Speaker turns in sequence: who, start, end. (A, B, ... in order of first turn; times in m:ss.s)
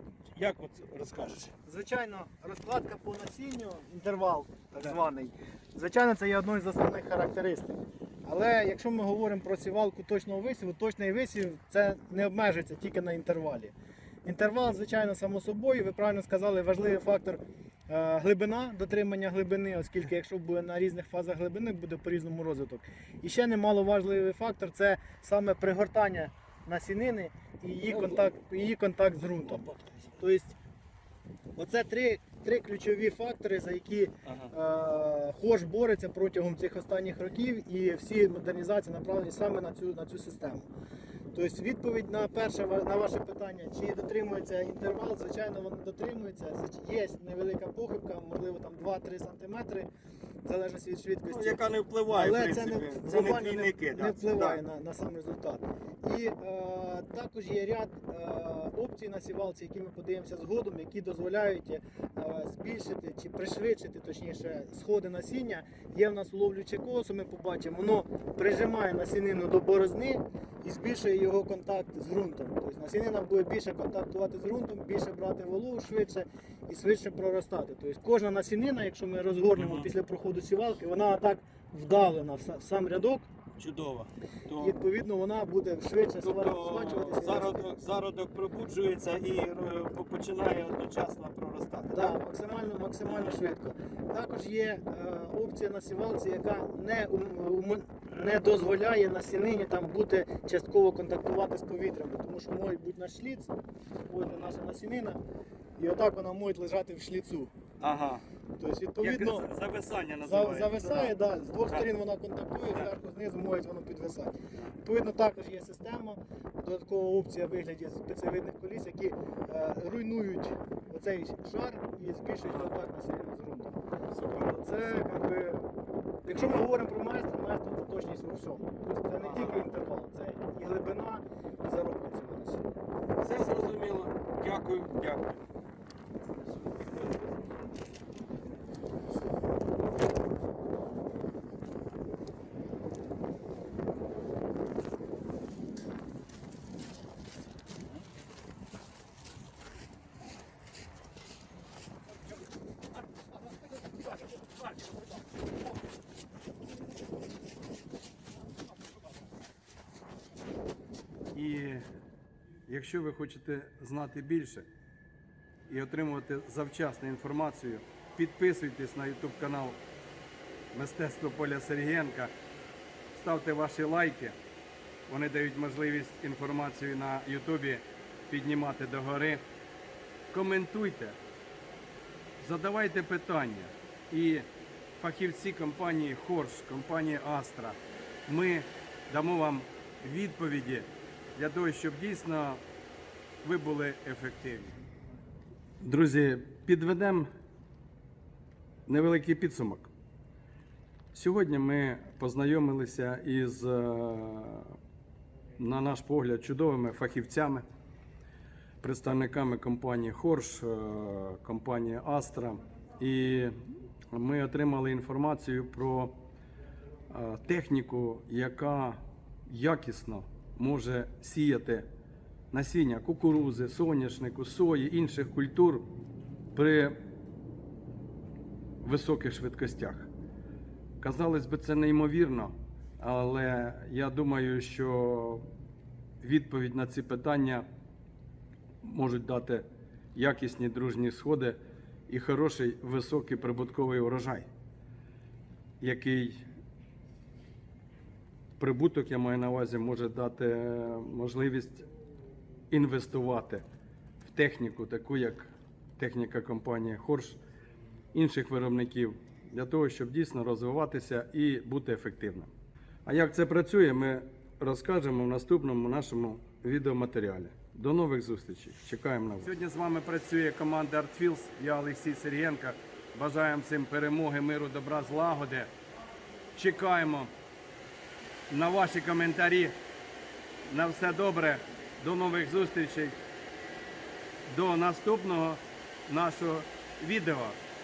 0:00.3-0:01.5 A
0:01.6-0:13.7 B
0:14.2-0:29.6 B
0:27.9-0:28.3 A
0:29.5-0:29.9 A
0:30.2-0:30.6 B
0:31.6-0:40.7 B
0:34.2-0:34.5 A
0:41.3-0:49.9 B
0:50.4-1:23.3 B
0:51.3-0:54.6 A
1:19.6-1:19.9 A
1:23.6-1:24.8 A
1:24.6-1:27.7 B
1:26.2-1:32.2 A
1:31.9-1:43.5 B
1:33.1-1:33.4 A
1:44.1-1:45.2 B
1:45.8-1:47.5 B
1:47.8-1:48.2 A
1:48.6-1:49.5 B
1:49.0-1:51.9 A
1:50.2-2:03.8 B
2:02.4-2:02.7 A
2:04.1-2:05.0 A
2:04.5-2:05.7 B
2:06.2-2:12.7 B
2:06.4-2:06.7 A
2:09.2-2:09.6 A
2:13.2-2:15.4 A
2:16.7-2:17.2 A
2:41.3-2:41.8 A
2:42.7-2:44.7 A
2:45.7-2:49.8 A
2:50.7-2:52.3 A
2:53.1-2:54.4 A
2:55.1-2:59.4 A
3:00.3-3:01.2 A
3:02.4-3:04.5 A
3:05.0-3:12.6 A
3:13.4-3:14.8 A
3:15.8-3:17.3 A
3:18.9-3:19.9 A
3:21.1-3:24.8 A
3:25.6-3:27.6 A
3:28.8-3:33.6 A
3:34.1-3:36.2 A
3:37.1-3:41.9 A
3:42.5-3:45.9 A
3:46.6-3:47.0 A
3:48.8-3:50.1 A
3:51.0-3:55.5 A
3:56.2-3:57.7 A
3:58.8-4:04.5 A
4:05.8-4:06.5 A
4:08.6-4:11.9 A
4:12.7-4:13.6 A
4:14.2-4:17.4 A
4:18.1-4:22.5 A
4:23.1-4:35.7 A
4:36.5-4:37.3 A
4:38.5-4:39.8 A
4:40.7-4:43.2 A
4:44.5-4:47.6 A